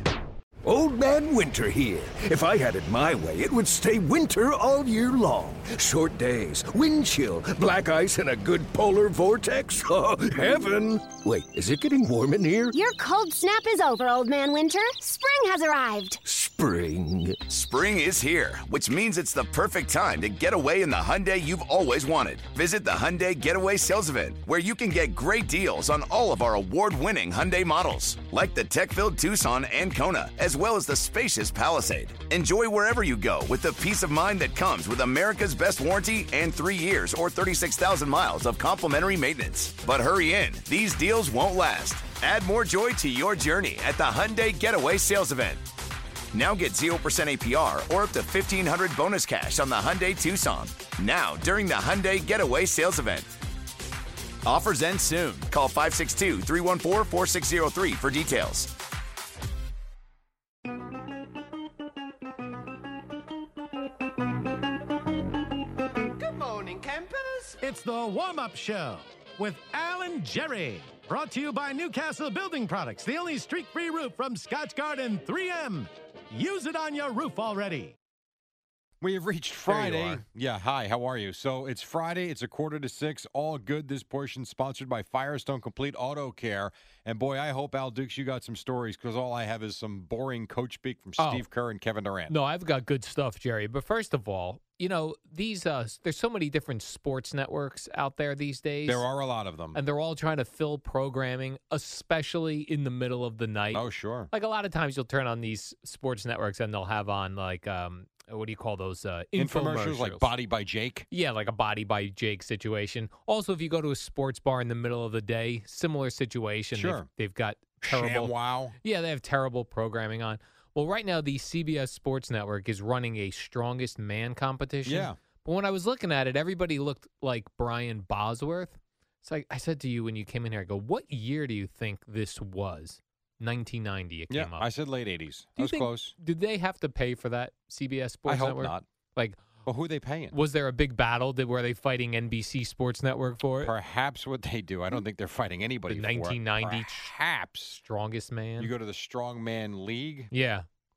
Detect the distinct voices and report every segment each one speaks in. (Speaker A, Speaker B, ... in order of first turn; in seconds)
Speaker A: 0.7-12.7, 16.3-17.4
Speaker B: 12.7-16.2
Speaker C: 17.4-45.6, 46.3-53.3, 54.5-58.7
Speaker D: 67.6-77.9
Speaker E: 79.0-92.3, 98.9-99.8, 103.7-104.3, 109.4-111.1, 116.8-117.1, 117.8-118.8, 124.8-125.2, 134.3-136.2, 138.3-138.9, 139.7-140.4, 143.6-147.8, 148.6-150.3
Speaker F: 79.7-80.2, 91.2-91.5, 92.3-99.1, 99.7-110.3, 111.1-134.7, 135.6-139.4, 140.3-143.7, 145.9-147.1, 147.8-148.7, 150.3-150.7